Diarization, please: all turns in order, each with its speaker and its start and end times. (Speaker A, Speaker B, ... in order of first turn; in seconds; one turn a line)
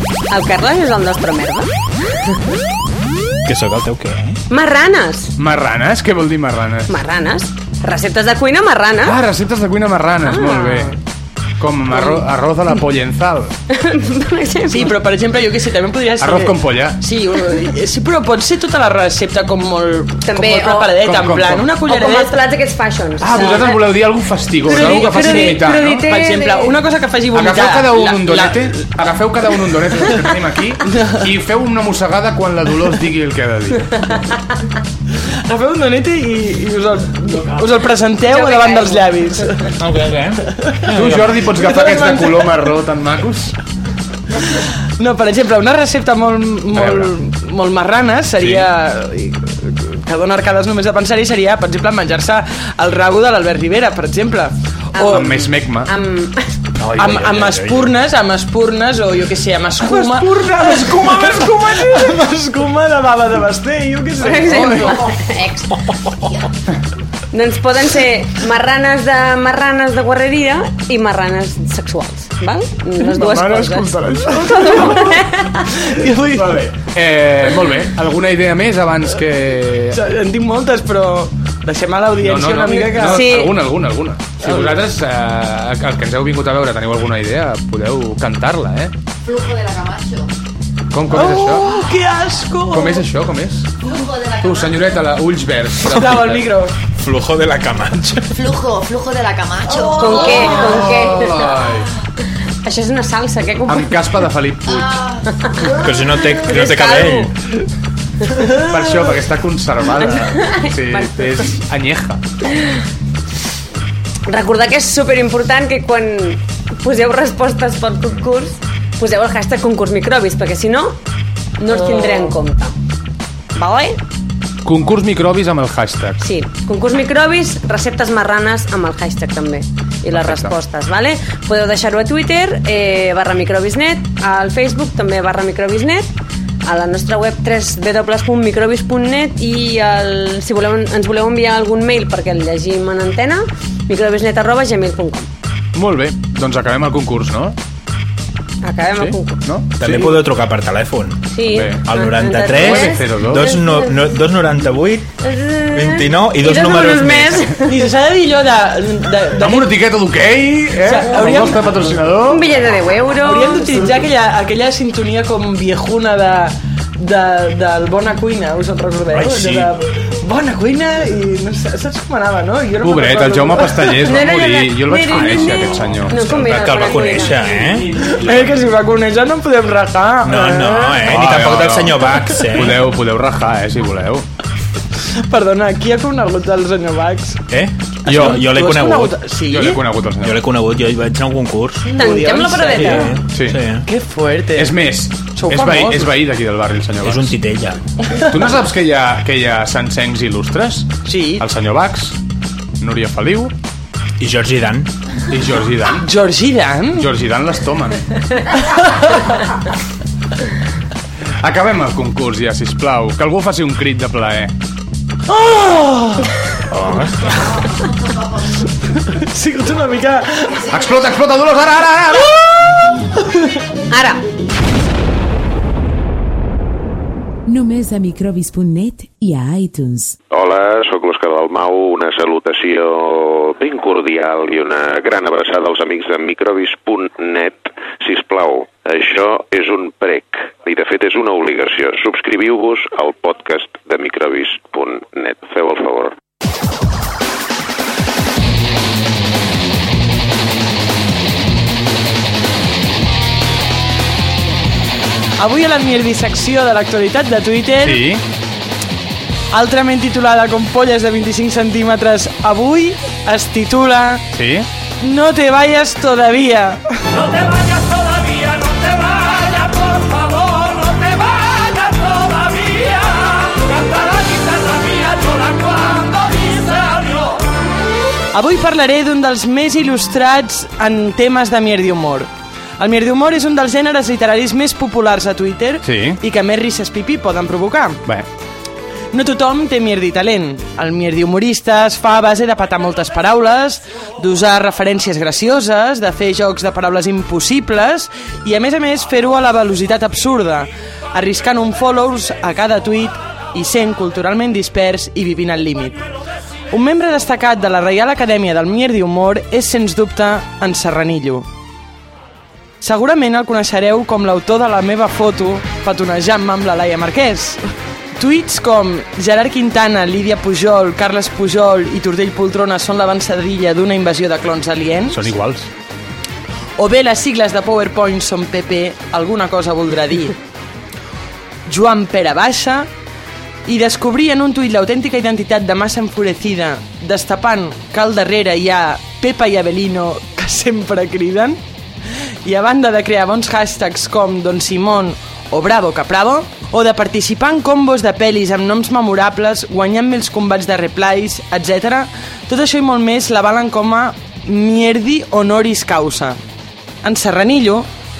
Speaker A: 0.3-1.7
Speaker B: 3.4-4.4
Speaker A: 4.5-5.3
Speaker C: 5.4-7.0
Speaker A: 6.9-9.2
Speaker C: 9.0-10.9
Speaker A: 10.2-10.9
Speaker C: 11.6-13.5
Speaker A: 13.7-15.0
Speaker D: 14.7-22.3
Speaker C: 16.2-17.0
Speaker A: 20.2-20.9
Speaker C: 21.0-21.7
Speaker A: 21.8-23.8
Speaker C: 23.2-26.1
Speaker D: 23.3-23.7
Speaker D: 24.7-28.7
Speaker A: 24.7-26.7
Speaker C: 27.3-33.9
Speaker D: 30.9-31.2
Speaker D: 35.5-39.7
Speaker A: 38.3-39.1
Speaker B: 39.8-41.3
Speaker C: 40.9-43.5
Speaker D: 41.4-42.7
Speaker D: 44.5-55.5
Speaker C: 46.7-47.1
Speaker C: 48.4-48.7
Speaker A: 54.9-56.4
Speaker C: 55.1-55.9
Speaker B: 56.8-57.9
Speaker D: 57.0-65.1
Speaker C: 59.8-62.1
Speaker A: 64.2-65.8
Speaker C: 64.4-65.0
Speaker A: 67.3-75.7
Speaker C: 73.1-74.9
Speaker D: 74.1-76.7
Speaker C: 76.3-80.0
Speaker D: 79.9-83.2
Speaker C: 82.2-88.9
Speaker A: 83.0-83.5
Speaker D: 84.4-84.8
Speaker E: 89.2-90.2
Speaker C: 90.9-91.8
Speaker D: 91.1-93.0
Speaker C: 92.7-96.5
Speaker D: 95.8-96.7
Speaker B: 97.0-98.2
Speaker E: 98.3-100.4
Speaker A: 100.0-101.5
Speaker C: 100.4-101.9
Speaker A: 102.6-103.9
Speaker C: 103.7-105.0
Speaker A: 105.3-105.8
Speaker B: 105.8-107.3
Speaker A: 106.3-107.3
Speaker C: 108.5-112.2
Speaker A: 110.0-111.1
Speaker A: 114.3-121.0
Speaker A: 121.6-122.7
Speaker D: 121.8-122.2
Speaker A: 123.5-124.0
Speaker C: 124.6-126.2
Speaker A: 126.2-136.1
Speaker C: 130.1-130.5
Speaker A: 136.6-145.3
Speaker C: 145.7-147.6
Speaker A: 148.6-149.4
Speaker C: 148.9-150.2
Speaker B: 149.8-151.2
Speaker A: 151.3-154.1
Speaker C: 151.5-151.8
Speaker B: 151.8-155.1
Speaker C: 152.5-153.4
Speaker A: 155.2-157.7
Speaker B: 155.7-157.5
Speaker D: 157.6-159.7
Speaker C: 159.4-162.4
Speaker D: 160.8-161.7
Speaker A: 162.3-163.9
Speaker D: 163.2-174.0
Speaker B: 169.1-169.7
Speaker C: 172.8-177.2
Speaker A: 174.0-177.4
Speaker B: 175.2-178.1
Speaker D: 177.8-181.1
Speaker B: 180.2-182.8
Speaker C: 181.0-184.2
Speaker D: 185.2-187.4
Speaker B: 187.5-189.1
Speaker C: 188.1-188.5
Speaker D: 188.1-189.8
Speaker C: 189.5-190.4
Speaker B: 190.2-191.9
Speaker D: 191.8-193.2
Speaker A: 191.9-193.1
Speaker B: 192.6-193.8
Speaker C: 193.3-193.6
Speaker D: 193.8-194.8
Speaker C: 194.6-197.3
Speaker D: 195.3-196.1
Speaker B: 197.0-197.8
Speaker C: 198.2-202.2
Speaker D: 201.1-201.4
Speaker C: 202.8-203.5
Speaker B: 204.2-204.9
Speaker C: 205.3-206.0
Speaker D: 206.0-207.1
Speaker C: 206.9-208.0
Speaker C: 211.4-214.5
Speaker D: 215.3-216.3
Speaker B: 216.7-217.3
Speaker D: 219.1-220.7
Speaker C: 220.7-222.3
Speaker D: 223.3-223.6
Speaker A: 223.9-224.2
Speaker F: 227.5-230.2
Speaker G: 230.3-246.1
Speaker D: 255.4-258.0
Speaker C: 257.8-258.2
Speaker D: 259.5-264.2
Speaker C: 264.3-264.7
Speaker D: 265.0-266.9
Speaker D: 278.3-288.0
Speaker C: 285.8-286.2
Speaker D: 289.1-306.0
Speaker D: 306.7-311.4
Speaker D: 312.8-317.6
Speaker D: 318.1-325.3
Speaker C: 325.1-325.7
Speaker D: 326.8-330.4
Speaker D: 331.6-332.9
Speaker D: 333.6-341.6
Speaker D: 342.4-356.4
Speaker D: 357.0-357.9